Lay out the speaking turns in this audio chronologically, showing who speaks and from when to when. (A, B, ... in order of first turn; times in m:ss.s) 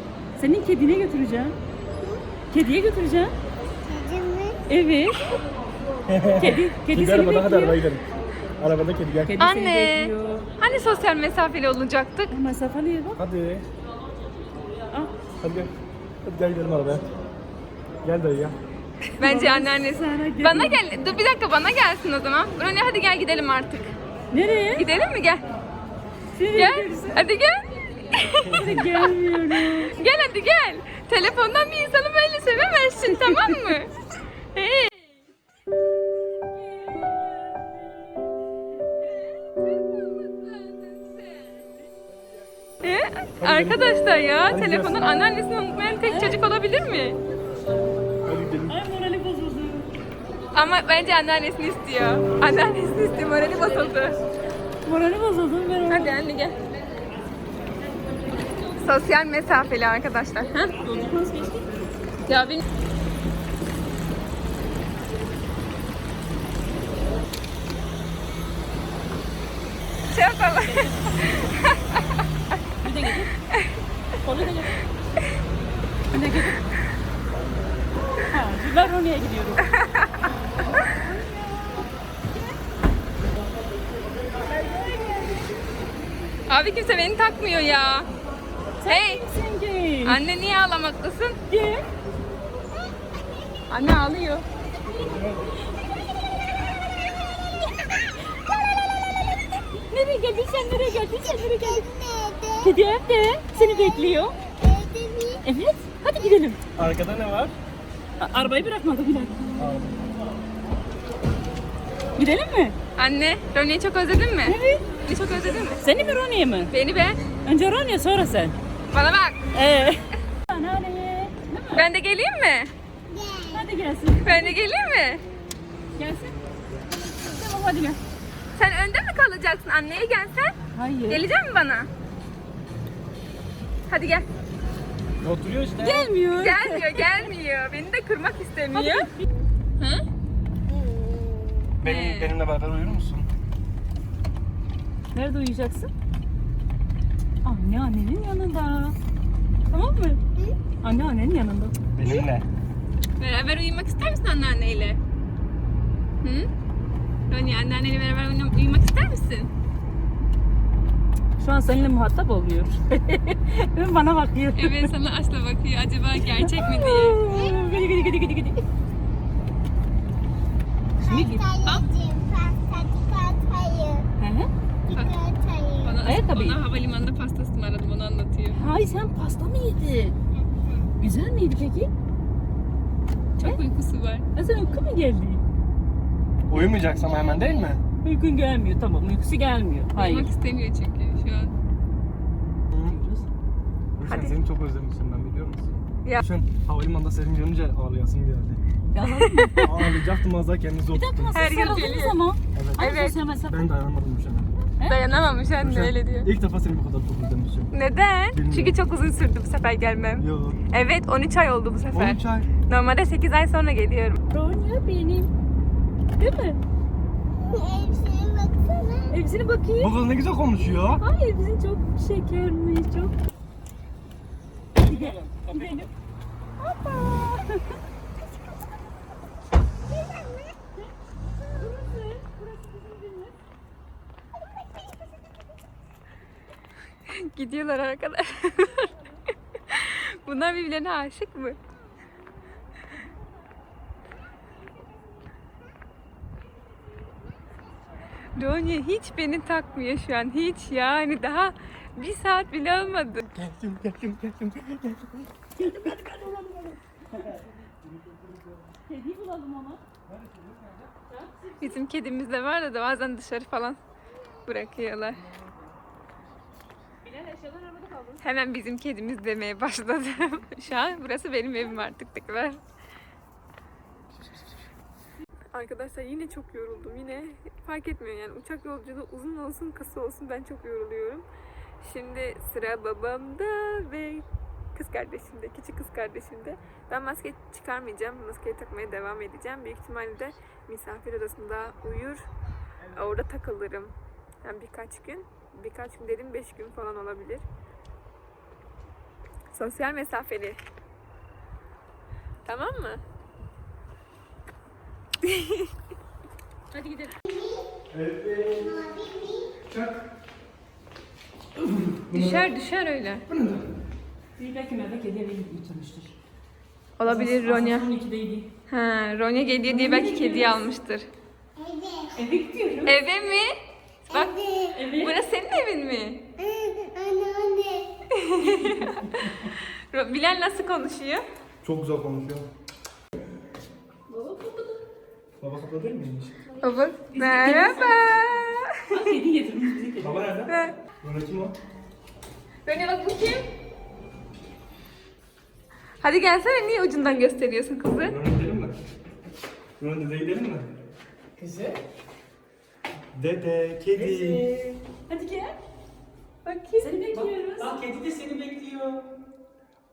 0:00.4-0:01.6 A
0:02.5-0:03.3 A
0:03.6-0:04.6 B
0:04.7-0:05.3 A
0:06.1-0:08.0 C
0:06.4-0:07.9 A
0:08.6-0:09.4 C
0:09.3-0:10.5 A
0:09.4-0:12.4 D
0:12.3-0:13.2 A
0:13.2-0:13.7 C
0:15.4-0:15.7 C
0:16.2-0:17.0 C
0:18.0-0:18.6 C
0:19.2-0:24.0 D
0:19.2-0:20.8 A
0:24.3-0:24.8 A
0:24.8-0:25.4 D
0:26.4-0:27.2 A
0:26.5-0:33.9 D
0:28.4-0:28.8 C
0:28.5-0:30.0 A
0:34.5-0:35.2 D
0:36.4-0:38.1 A
0:39.4-0:41.5 D
0:42.8-0:47.2 D
0:43.4-0:45.0 C
0:46.0-0:46.4 A
0:48.2-0:48.8 C
0:48.7-0:49.9 A
0:50.5-0:54.2 D
0:53.7-0:54.0 A
0:54.8-0:56.3 A
0:55.9-0:56.6 D
0:57.9-0:58.8 A
0:58.8-1:00.8 D
1:00.8-1:01.7 A
1:02.3-1:02.6 D
1:10.1-1:12.0 D
1:10.6-1:11.6 A
1:12.8-1:13.4 A
1:14.2-1:14.9 A
1:16.1-1:16.8 A
1:18.2-1:19.8 A
1:19.7-1:20.3 D
1:20.7-1:21.9 A
1:24.4-1:25.5 A
1:26.5-1:28.1 D
1:28.8-1:30.2 A
1:28.9-1:29.2 D
1:30.0-1:31.4 D
1:31.5-1:31.8 A
1:33.7-1:34.4 D
1:34.9-1:35.6 C
1:36.5-1:39.4 B
1:39.7-1:41.8 A
1:41.2-1:42.7 B
1:42.6-1:44.4 A
1:44.4-1:45.4 B
1:45.4-1:46.6 A
1:46.8-1:47.5 C
1:48.2-1:49.5 A
1:49.6-1:50.0 C
1:52.2-1:52.8 A
1:53.0-1:55.9 D
1:54.4-1:54.9 A
1:55.8-1:56.7 A
1:56.7-1:57.2 D
1:57.5-1:58.6 A
1:58.9-1:59.5 D
1:59.5-2:01.8 A
2:01.7-2:02.7 D
2:03.1-2:03.6 B
2:03.5-2:04.6 A
2:04.2-2:05.2 D
2:06.0-2:08.0 A
2:08.6-2:10.6 D
2:10.7-2:11.2 A
2:11.1-2:11.9 D
2:13.9-2:14.3 D
2:15.2-2:16.1 C
2:15.8-2:17.1 A
2:16.3-2:19.1 D
2:18.7-2:19.3 A
2:20.7-2:21.7 B
2:21.8-2:23.3 C
2:21.8-2:22.4 D
2:25.1-2:25.9 A
2:27.4-2:29.0 A
2:29.7-2:30.2 A
2:30.8-2:31.7 A
2:31.9-2:32.5 C
2:33.2-2:35.0 D
2:36.2-2:36.5 D
2:37.3-2:39.5 D
2:41.4-2:44.9 A
2:44.6-2:47.2 D
2:46.2-2:48.6 A
2:47.3-2:47.8 B
2:51.0-2:51.5 A
2:51.0-2:54.1 B
2:54.2-2:54.5 A
2:54.9-2:56.0 B
2:55.8-2:58.6 D
2:56.0-2:56.6 A
2:58.5-3:00.2 A
3:00.4-3:00.9 B
3:01.0-3:01.9 A
3:03.4-3:04.3 D
3:04.4-3:05.4 A
3:06.5-3:07.8 C
3:08.0-3:10.3 A
3:10.0-3:11.5 D
3:12.7-3:13.3 C
3:14.0-3:18.6 C
3:14.0-3:14.4 D
3:18.9-3:19.9 A
3:19.2-3:19.7 D
3:19.6-3:21.4 C
3:20.9-3:23.6 A
3:21.3-3:22.2 D
3:22.6-3:22.9 C
3:22.8-3:23.2 D
3:23.4-3:24.5 C
3:24.8-3:26.3 D
3:25.6-3:27.7 C
3:27.7-3:34.2 D
3:28.3-3:28.8 C
3:30.2-3:30.6 C
3:31.9-3:32.5 C
3:34.3-3:35.3 A
3:36.2-3:36.6 A
3:37.4-3:39.2 B
3:39.1-3:40.0 A
3:39.8-3:41.0 C
3:41.0-3:43.1 A
3:44.8-3:45.9 A
3:44.9-3:45.8 C
3:46.6-3:47.8 A
3:49.9-3:50.6 B
3:51.5-3:53.3 A
3:57.1-3:58.9 D
3:59.7-4:01.6 D
4:08.4-4:13.3 D
4:13.3-4:16.0 C
4:15.6-4:16.8 A
4:17.9-4:18.4 C
4:18.9-4:19.8 A
4:20.1-4:20.9 C
4:21.1-4:21.8 A
4:21.6-4:23.8 D
4:24.5-4:25.3 D
4:27.0-4:28.2 A
4:28.2-4:32.6 D
4:35.5-4:41.3 D
4:41.8-4:52.3 D
4:52.9-4:57.4 D
4:59.5-5:00.6 D
5:02.5-5:03.0 D
5:05.2-5:05.7 D
5:06.7-5:07.2 A
5:07.3-5:07.7 B
5:07.9-5:08.8 C
5:08.5-5:09.6 B
5:09.7-5:10.0 C
5:11.9-5:12.5 C
5:12.1-5:13.3 D
5:13.3-5:13.7 C
5:14.4-5:16.2 A
5:17.0-5:17.9 D
5:17.0-5:18.5 A
5:18.7-5:21.1 D
5:19.7-5:20.6 A
5:21.6-5:22.2 B
5:22.2-5:23.0 A
5:22.8-5:23.6 D
5:24.1-5:24.8 B
5:24.8-5:25.2 A
5:25.0-5:26.2 D
5:26.4-5:27.9 B
5:28.1-5:31.2 D
5:28.6-5:29.0 A
5:31.6-5:32.5 C
5:34.1-5:34.8 A
5:35.4-5:36.3 C
5:36.6-5:39.0 D
5:37.1-5:40.3 A
5:40.0-5:41.6 C
5:40.5-5:40.8 D
5:42.7-5:43.5 D
5:46.0-5:48.2 D
5:48.0-5:48.8 C
5:49.8-5:50.7 C
5:51.4-5:51.8 E
5:53.1-5:54.5 C
5:54.0-5:54.8 E
5:55.1-5:55.6 A
5:56.4-5:56.9 D
5:56.8-5:57.7 A
5:57.1-5:59.1 E